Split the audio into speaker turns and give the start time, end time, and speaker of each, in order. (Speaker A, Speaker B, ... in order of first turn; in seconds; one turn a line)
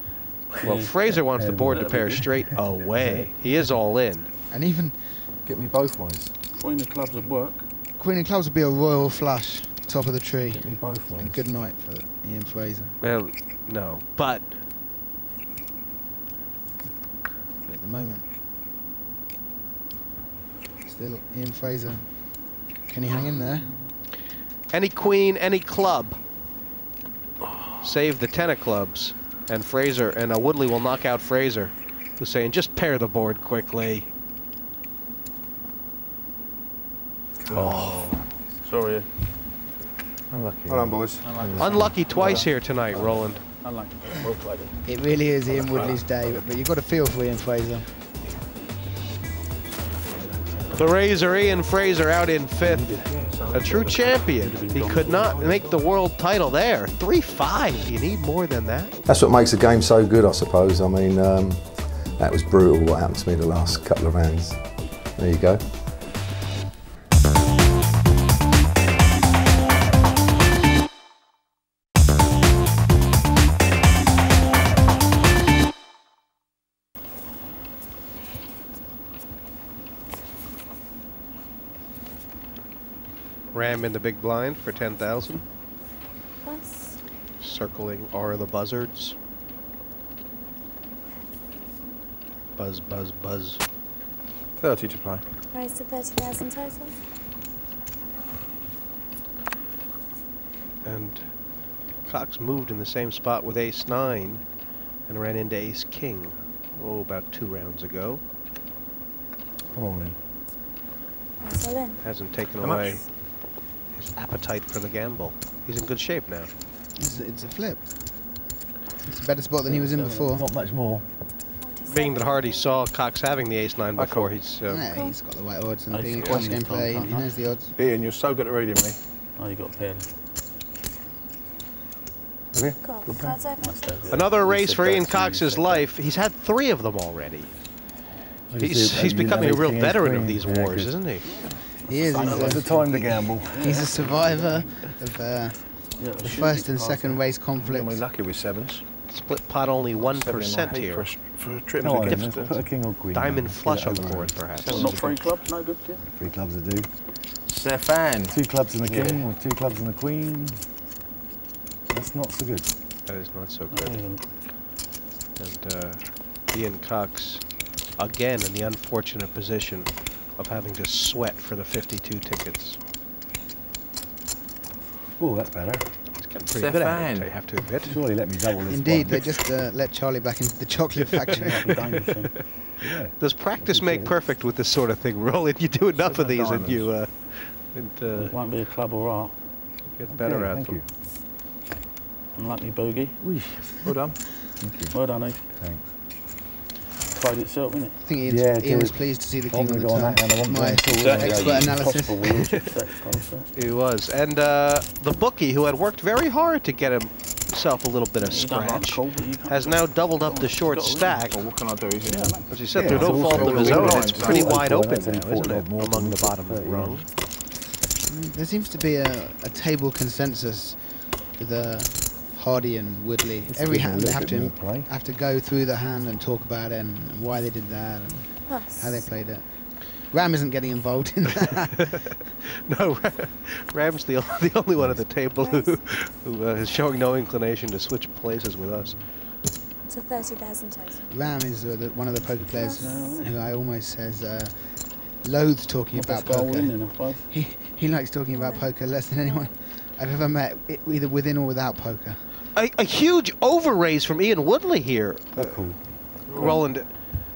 Speaker A: 0.5-3.7
Speaker B: 0.6-4.3
Speaker C: 0.6-1.1
Speaker C: 1.7-2.4
Speaker D: 4.5-5.2
Speaker A: 5.4-6.3
Speaker C: 6.5-7.7
Speaker D: 8.0-13.0
Speaker A: 10.6-11.4
Speaker B: 13.0-14.6
Speaker D: 17.6-18.3
Speaker D: 20.8-23.7
Speaker B: 24.7-26.2
Speaker B: 27.8-34.1
Speaker A: 37.4-38.3
Speaker E: 37.5-37.8
Speaker C: 37.5-38.1
Speaker C: 38.6-39.1
Speaker A: 40.3-42.2
Speaker E: 40.7-41.7
Speaker C: 41.2-44.9
Speaker B: 41.6-43.4
Speaker D: 44.9-47.9
Speaker E: 45.6-46.4
Speaker E: 49.7-50.8
Speaker C: 50.2-50.8
Speaker B: 50.8-59.0
Speaker C: 52.6-53.3
Speaker E: 52.9-55.8
Speaker C: 54.2-55.6
Speaker F: 59.1-65.6
Speaker B: 83.5-85.4
Speaker G: 86.5-87.0
Speaker B: 87.4-89.2
Speaker B: 92.6-93.6
Speaker E: 94.6-95.2
Speaker G: 95.5-96.9
Speaker B: 100.8-104.5
Speaker B: 105.0-108.2
Speaker A: 109.7-110.2
Speaker G: 111.4-112.0
Speaker B: 112.0-113.2
Speaker E: 112.6-113.0
Speaker B: 113.9-116.5
Speaker D: 117.0-118.3
Speaker D: 119.0-120.5
Speaker C: 119.8-120.3
Speaker A: 120.3-121.1
Speaker G: 121.6-122.7
Speaker B: 121.9-124.8
Speaker E: 124.0-124.5
Speaker D: 124.6-127.8
Speaker G: 124.9-125.2
Speaker C: 125.9-127.3
Speaker E: 127.8-129.0
Speaker C: 129.4-130.1
Speaker A: 132.5-133.4
Speaker G: 132.8-134.1
Speaker C: 133.6-135.9
Speaker B: 134.1-137.5
Speaker A: 138.5-141.1
Speaker B: 138.6-141.3
Speaker C: 141.2-144.9
Speaker D: 141.8-148.1
Speaker A: 142.2-143.7
Speaker C: 146.0-147.3
Speaker E: 147.6-148.8
Speaker B: 149.1-151.1
Speaker E: 150.0-152.7
Speaker A: 151.8-154.5
Speaker B: 153.1-155.0
Speaker E: 154.5-155.3
Speaker C: 154.6-156.1
Speaker A: 156.1-156.9
Speaker E: 157.5-158.4
Speaker A: 158.3-160.6
Speaker C: 158.8-159.3
Speaker A: 161.9-162.7
Speaker B: 163.1-164.2
Speaker C: 163.7-164.3
Speaker B: 165.4-172.8
Speaker A: 175.2-175.9
Speaker B: 176.2-178.0
Speaker E: 176.5-177.3
Speaker A: 177.8-179.3
Speaker D: 178.7-181.7
Speaker C: 181.3-182.5
Speaker B: 182.4-188.3
Speaker A: 182.8-184.2
Speaker C: 186.0-186.9
Speaker C: 188.2-189.5
Speaker B: 189.9-190.8
Speaker A: 190.1-190.9
Speaker C: 192.3-193.2
Speaker A: 193.2-193.9
Speaker E: 193.8-194.2
Speaker A: 194.6-195.9
Speaker C: 194.9-195.5
Speaker C: 197.1-198.0
Speaker D: 198.0-202.5
Speaker A: 198.2-201.8
Speaker C: 201.0-203.5
Speaker B: 203.6-211.4
Speaker C: 208.2-211.2
Speaker E: 211.3-214.6
Speaker C: 212.0-213.3
Speaker B: 212.5-217.1
Speaker A: 212.7-217.1
Speaker D: 218.1-231.9
Speaker A: 223.5-224.9
Speaker G: 228.5-229.1
Speaker B: 231.9-239.1
Speaker A: 234.8-235.1
Speaker G: 235.4-235.7
Speaker G: 239.9-241.1
Speaker D: 241.1-252.2
Speaker G: 242.6-243.1
Speaker C: 242.8-243.4
Speaker C: 245.9-247.3
Speaker G: 248.3-249.5
Speaker B: 252.6-256.9
Speaker A: 255.3-256.1
Speaker E: 256.3-256.6
Speaker C: 256.4-256.6